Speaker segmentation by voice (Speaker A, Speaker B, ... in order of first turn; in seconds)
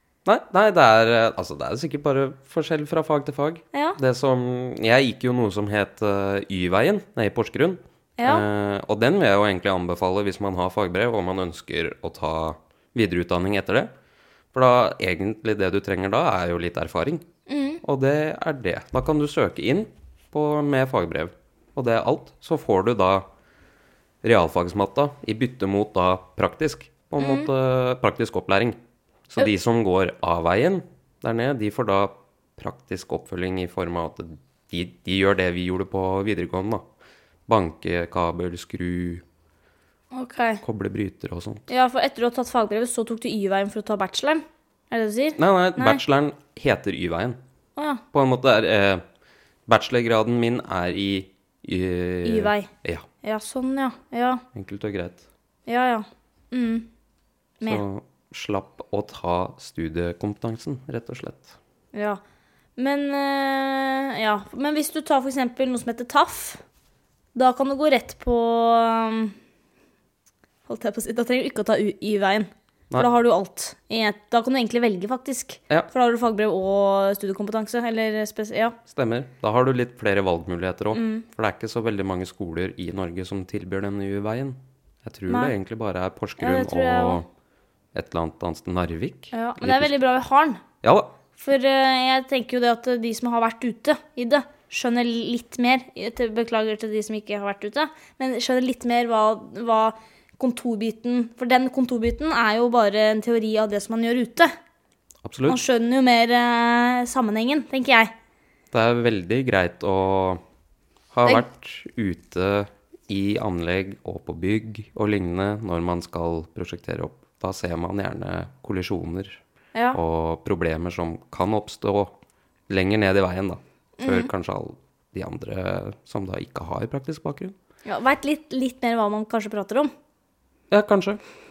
Speaker A: 0.2-13.9, 14.5-17.2, 17.8-23.3, 24.2-28.8, 29.3-36.8, 37.5-39.2, 40.6-41.7, 45.4-47.4, 48.1-49.0, 49.7-53.1, 54.5-55.2, 57.6-61.5, 78.9-87.3, 87.9-90.0, 90.8-91.1, 105.2-105.6, 108.7-110.4, 111.1-119.4, 119.9-122.1, 122.7-127.5, 130.7-131.2
Speaker B: 3.7-4.0, 8.2-8.4, 17.5-17.8, 27.2-27.5, 40.1-40.6, 41.7-46.0, 47.8-48.0, 52.2-52.7, 53.2-54.4, 55.7-56.9, 61.9-62.2, 62.8-66.6, 67.3-69.3, 70.7-78.8, 80.9-81.2, 85.3-85.5, 86.4-87.2, 89.3-90.6, 91.4-104.5, 105.5-108.1, 124.0-124.3, 127.9-129.9